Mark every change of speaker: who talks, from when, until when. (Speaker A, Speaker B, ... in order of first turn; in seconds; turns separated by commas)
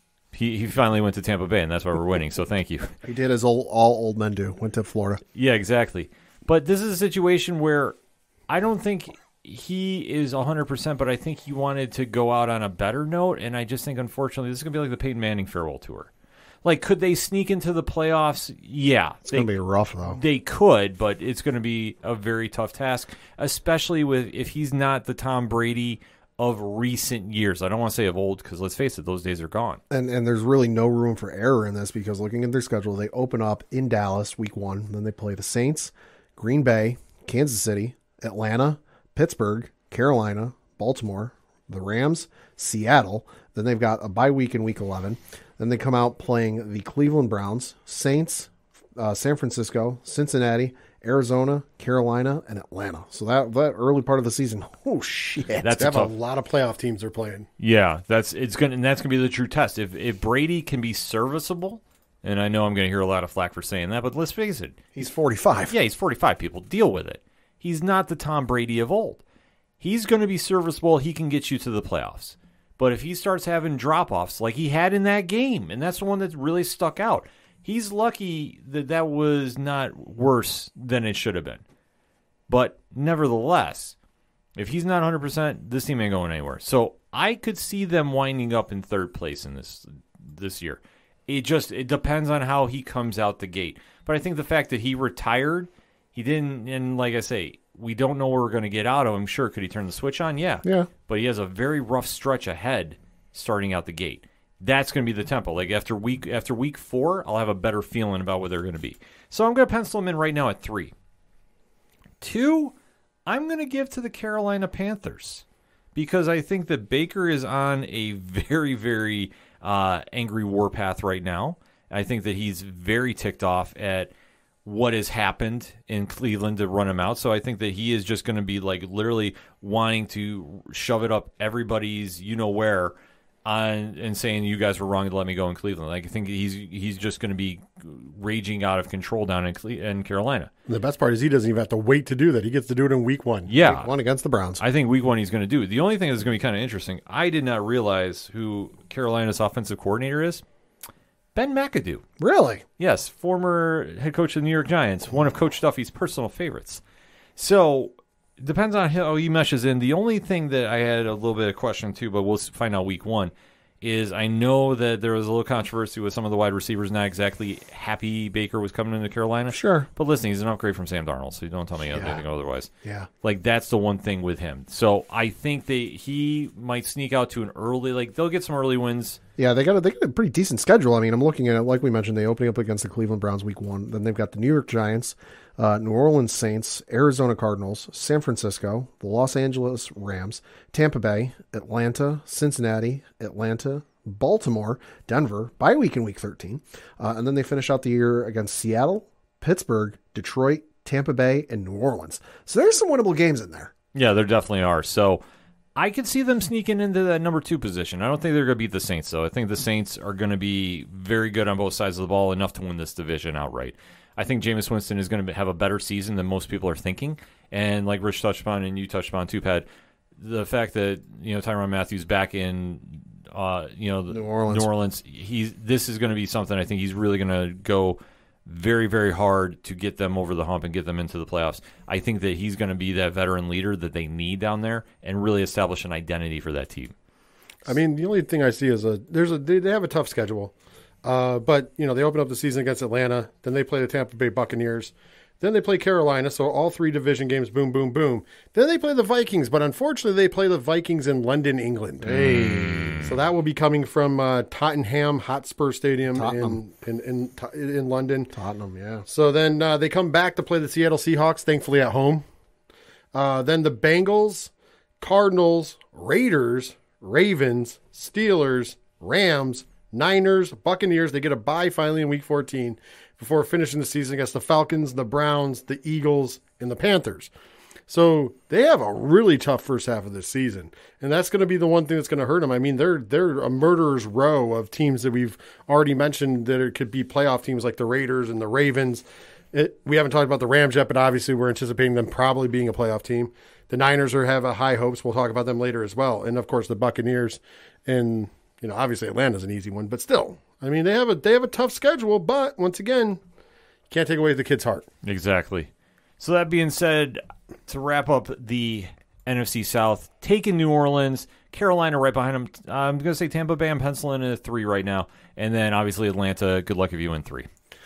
Speaker A: 0.3-2.9, Speaker B: 3.0-5.2, Speaker A: 5.3-8.0, Speaker A: 8.5-16.1, Speaker A: 16.6-19.5, Speaker B: 19.2-20.2, Speaker A: 20.1-29.8, Speaker B: 29.9-55.8, Speaker A: 55.6-56.1, Speaker C: 55.8-57.5, Speaker A: 57.6-64.8, Speaker B: 64.9-65.7, Speaker A: 65.7-69.2, Speaker A: 69.8-81.6, Speaker A: 82.5-83.9, Speaker A: 84.6-110.9, Speaker B: 100.6-100.9, Speaker A: 112.2-112.7, Speaker A: 113.3-115.4, Speaker A: 115.9-124.1, Speaker A: 124.6-140.5, Speaker C: 140.7-143.5, Speaker A: 143.5-143.9, Speaker B: 143.6-144.6, Speaker A: 144.6-150.4, Speaker A: 151.3-152.0, Speaker B: 152.2-152.6, Speaker A: 152.8-156.8, Speaker A: 157.3-172.7, Speaker B: 169.5-169.9, Speaker B: 171.9-172.2, Speaker B: 172.8-173.1, Speaker A: 173.2-179.2, Speaker B: 179.4-203.7, Speaker A: 203.9-205.2, Speaker A: 205.8-219.7, Speaker A: 220.2-236.9, Speaker B: 224.1-224.7, Speaker C: 237.6-240.5, Speaker C: 241.0-252.2, Speaker B: 252.0-253.0, Speaker A: 252.1-253.1, Speaker C: 253.0-258.3, Speaker B: 256.1-256.6, Speaker B: 258.3-259.1, Speaker C: 259.1-262.2, Speaker C: 263.1-277.3, Speaker C: 277.9-303.2, Speaker C: 303.9-304.9, Speaker A: 305.0-317.5